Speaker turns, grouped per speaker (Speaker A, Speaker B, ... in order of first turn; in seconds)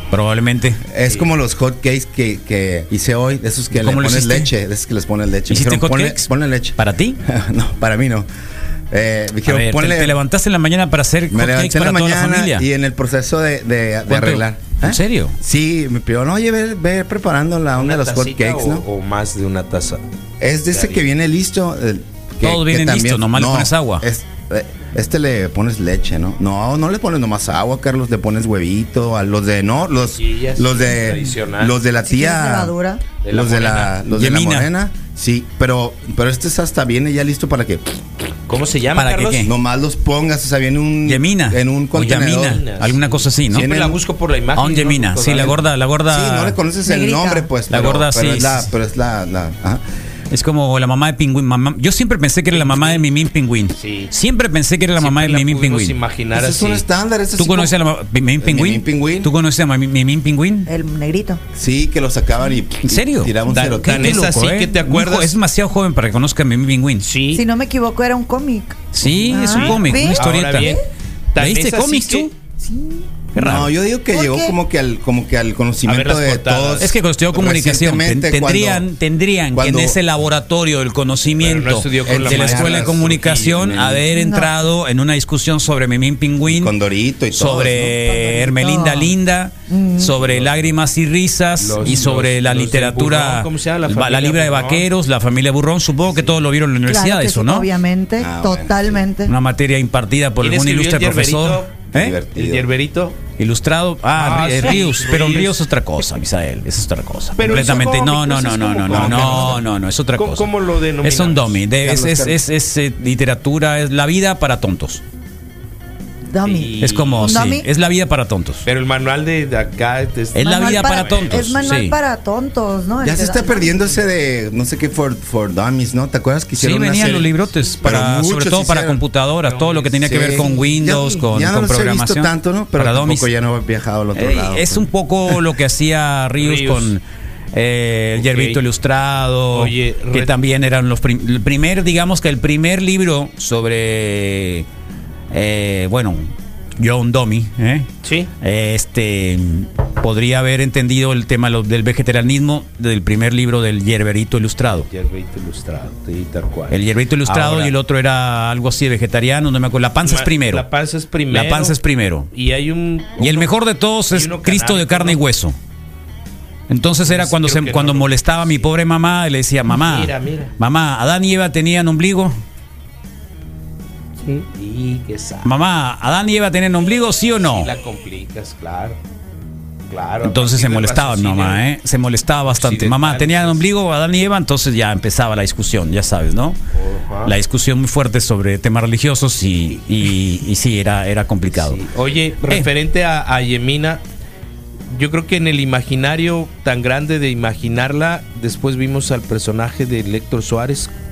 Speaker A: 0.1-0.8, 3.7-4.5, 5.5-7.2, 9.5-12.7, 14.1-15.3, 22.4-24.0, 33.9-34.7, 39.0-39.5, 41.1-43.8, 44.5-46.6, 47.7-48.7, 50.3-56.0, 57.4-60.7, 62.8-67.1, 68.9-70.8, 71.4-72.3, 73.3-73.7, 76.8-86.7, 87.3-97.7, 99.3-102.2, 103.4-110.5, 111.0-115.0, 116.8-118.7, 120.3-122.0, 126.6-133.3, 134.2-137.0, 137.5-144.7, 145.3-147.9, 148.4-154.9, 156.7-160.7, 161.3-162.3, 163.2-165.6, 166.7-172.3, 175.4-177.7, 180.2-186.6, 187.2-191.8
Speaker B: 0.9-8.3, 8.9-10.2, 11.3-18.9, 20.4-32.8, 33.3-37.8, 39.4-42.6, 43.5-44.0, 46.1-49.8, 56.4-57.7, 58.4-59.3, 61.5-64.3, 73.4-78.9, 79.5-80.0, 82.1-84.0, 86.5-88.0, 98.2-99.0, 101.9-102.7, 108.9-109.6, 111.8-112.4, 123.0-129.0, 130.0-135.4
Speaker C: 17.8-20.0, 20.7-21.1, 30.2-31.8, 33.2-33.9, 38.5-39.5, 42.0-45.6, 52.5-53.0, 53.8-54.1, 55.0-56.8, 63.5-65.4, 67.0-67.4, 69.3-70.8, 71.3-72.3, 75.9-76.9, 81.4-83.8, 90.2-90.7, 91.6-94.9, 100.4-101.7, 102.3-103.2, 104.2-105.5, 107.4-109.6, 110.2-111.6, 116.4-117.5, 118.7-121.8, 129.5-130.2, 136.4-136.9, 138.2-138.6, 139.5-140.3, 148.0-148.3, 154.8-157.7, 160.1-161.8, 162.3-163.5, 164.1-165.2, 167.0-168.7, 169.7-170.5, 174.3-175.5, 177.4-179.0, 179.9-181.6, 182.5-183.7, 186.8-187.3, 191.5-194.0, 194.9-200.9
Speaker D: 32.1-33.0, 46.9-47.5, 60.7-61.4, 67.3-70.8, 72.6-73.1, 74.1-74.5, 84.1-84.5, 88.0-89.1, 89.7-90.2, 96.9-99.3, 116.3-117.7, 120.4-123.8, 130.4-131.2